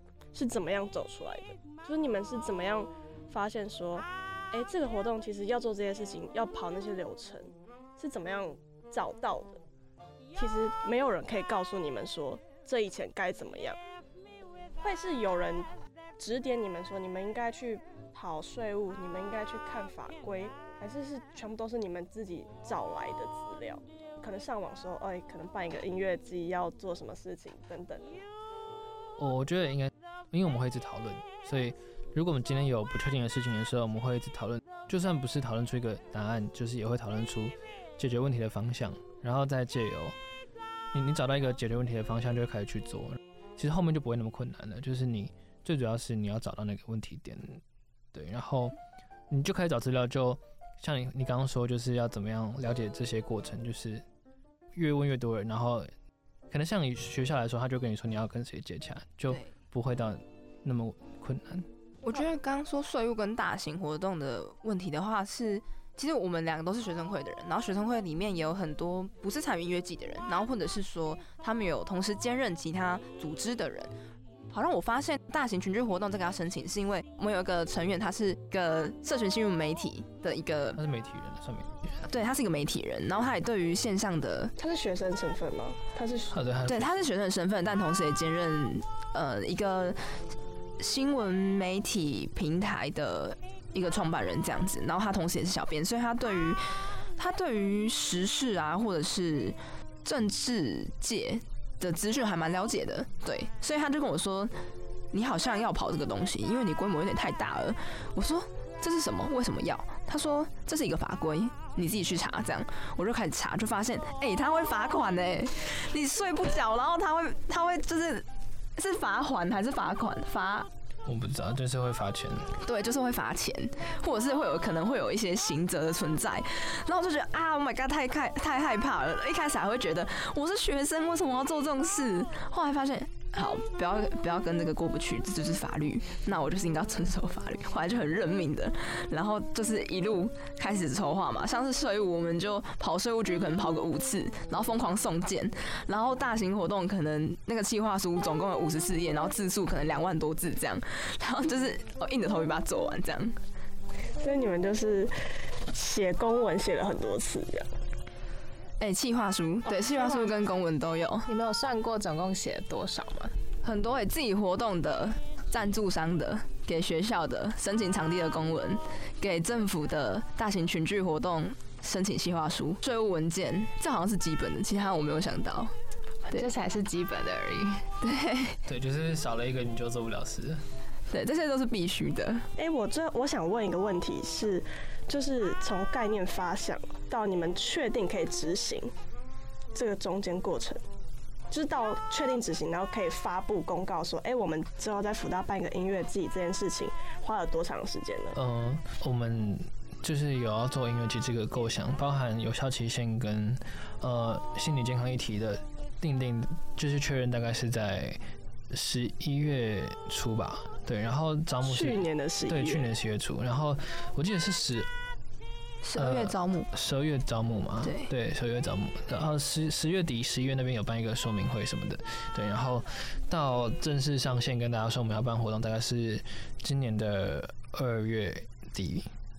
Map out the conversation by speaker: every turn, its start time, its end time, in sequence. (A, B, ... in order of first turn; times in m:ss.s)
0:00.3-0:09.6 A
0:10.3-0:13.8 A
0:14.8-0:28.2 A
0:29.2-0:40.1 B
0:40.9-0:47.6 B
0:48.1-0:48.7 B
0:49.3-0:54.0 B
0:54.7-0:55.9 B
0:56.5-1:01.7 B
1:02.0-1:13.9 C
1:14.5-1:20.8 C
1:20.7-1:21.9 B
1:22.1-1:24.5 C
1:24.6-1:26.3 A
1:26.3-1:26.9 B
1:26.7-1:30.2 C
1:30.8-1:44.5 C
1:45.1-2:00.7 C
2:01.0-2:02.5 B
2:02.6-2:33.4 C
2:34.2-2:35.1 A
2:35.7-2:37.7 A
2:38.8-2:41.3 C
2:39.8-2:40.2 A
2:41.3-2:43.3 D
2:43.6-2:55.7 C
2:56.3-2:57.9 D
2:58.0-2:58.6 C
2:58.6-3:00.6 B
3:01.1-3:02.5 C
3:02.6-3:08.9 A
3:09.7-3:10.8 A
3:11.5-3:18.4 A
3:18.3-3:34.9 B
3:31.6-3:32.9 A
3:35.8-3:36.7 C
3:35.9-3:49.1 B
3:37.8-3:38.1 C